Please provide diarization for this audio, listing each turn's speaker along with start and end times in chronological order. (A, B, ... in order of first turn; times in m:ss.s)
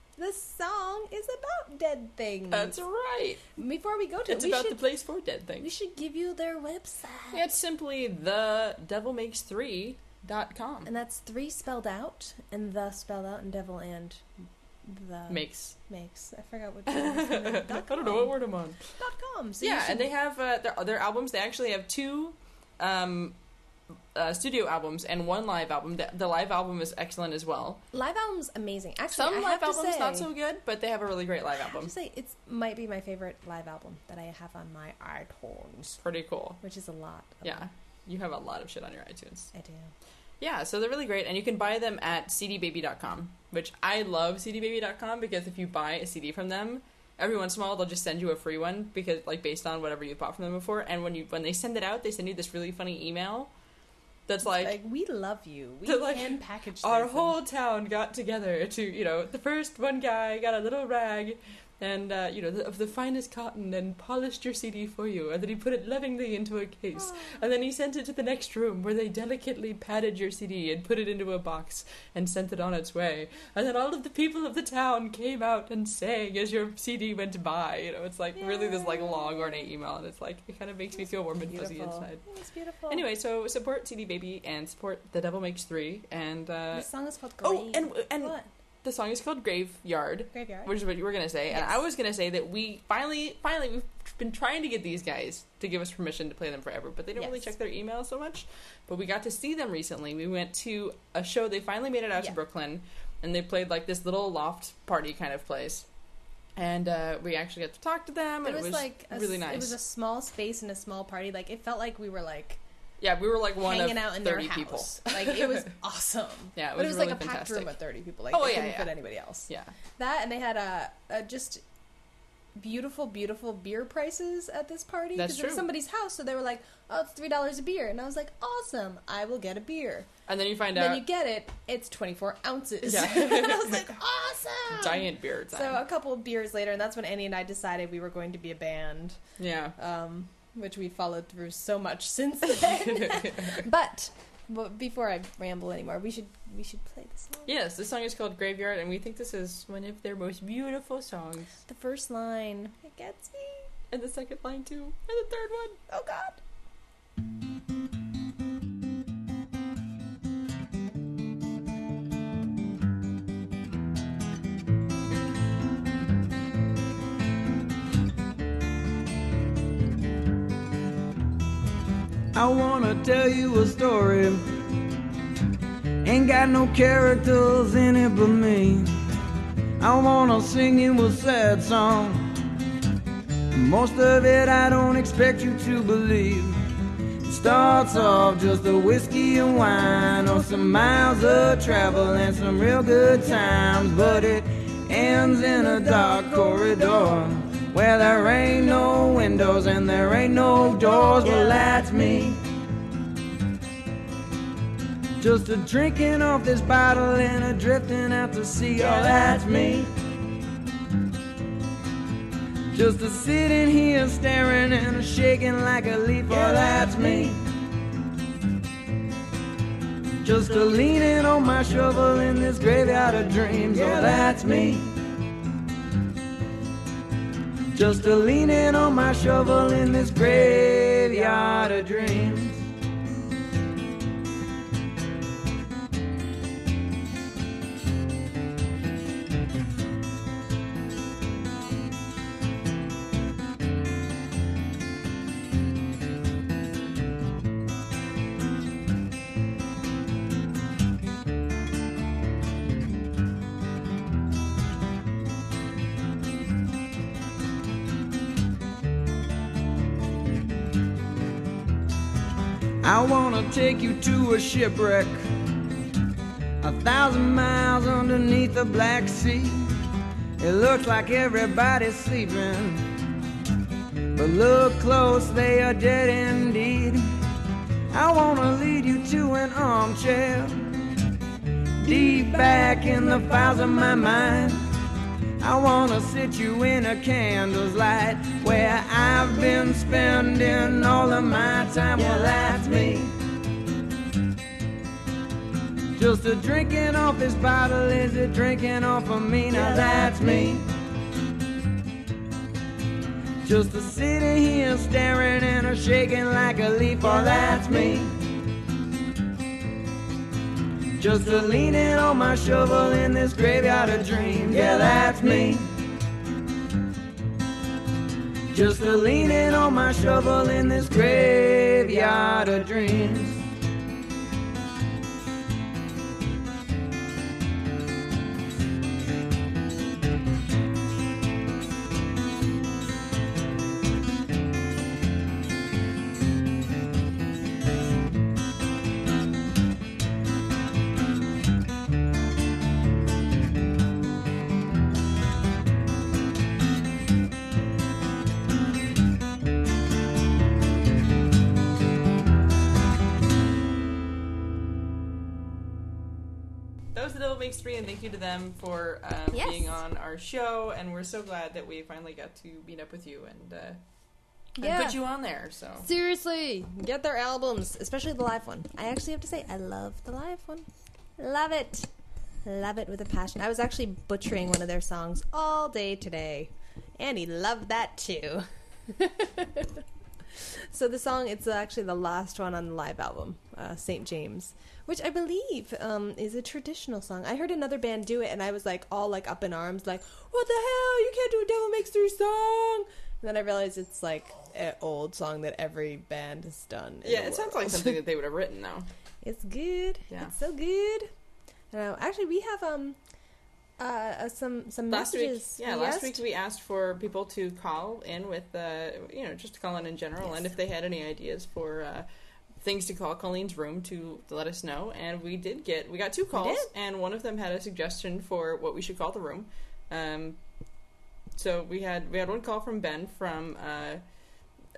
0:00.2-0:02.8 A
0:02.5-0:03.4 B
0:03.6-0:04.8 A
0:04.3-0:05.7 B
0:05.6-0:07.5 A
0:07.3-0:10.9 B
0:10.8-0:14.2 A
0:14.8-0:18.3 A
0:15.3-0:15.8 B
0:16.9-0:18.8 B
0:19.0-0:20.1 A
0:19.6-0:23.4 B
0:24.1-0:27.8 B
0:27.9-0:30.3 A
0:29.1-0:31.9 B
0:31.6-0:36.0 A
0:36.0-0:36.6 B
0:36.6-0:37.6 A
0:37.4-0:39.5 B
0:39.5-0:39.9 A
0:40.4-0:53.5 B
0:54.3-0:54.8 B
0:54.4-0:57.4 A
0:55.8-1:22.2 B
1:07.0-1:07.4 A
1:18.4-1:19.7 A
1:20.9-1:23.0 A
1:22.9-1:26.9 B
1:26.7-1:28.5 A
1:27.4-1:45.9 B
1:30.3-1:30.7 A
1:31.5-1:31.8 A
1:37.2-1:37.5 A
1:46.6-1:49.8 B
1:48.4-1:52.6 A
1:53.0-1:55.7 B
1:53.6-2:01.6 A
1:56.6-1:57.8 B
1:58.3-1:58.9 B
1:59.5-1:59.7 B
2:02.6-2:10.1 A
2:05.2-2:05.7 B
2:10.3-2:11.0 B
2:10.7-2:19.2 A
2:12.8-2:13.9 B
2:14.7-2:15.8 B
2:19.4-2:19.8 B
2:19.8-2:27.5 A
2:23.1-2:23.5 B
2:27.5-2:31.6 B
2:31.7-2:33.7 A
2:33.9-2:35.8 B
2:35.9-2:36.4 A
2:52.3-2:54.4 C
2:56.0-2:58.9 C
2:59.8-3:02.3 C
3:03.5-3:06.6 C
3:07.2-3:22.4 C
3:21.1-3:21.6 A
3:25.2-3:29.9 C
3:32.7-3:37.4 C
3:40.2-3:44.9 C
3:47.7-3:52.6 C
4:22.8-4:25.3 C
4:26.6-4:29.7 C
4:30.4-4:32.8 C
4:34.1-4:37.0 C
4:37.9-4:40.7 C
4:41.8-4:44.6 C
4:45.4-4:53.1 C
4:55.9-5:00.6 C
5:03.4-5:08.1 C
5:11.0-5:15.7 C
5:18.5-5:23.4 C
5:56.9-6:03.8 B
5:59.3-5:59.7 A
6:04.6-6:05.0 A
6:04.6-6:05.9 B
6:05.8-6:10.6 A
6:11.2-6:11.9 A
6:12.4-6:19.8 A
6:20.4-6:38.0 A
6:37.0-6:38.9 B
6:39.2-6:41.1 A
6:41.7-6:43.0 A
6:43.8-6:46.2 A
6:44.9-6:52.1 B
6:52.6-7:00.4 B
6:56.3-6:56.7 A
7:01.3-7:04.0 B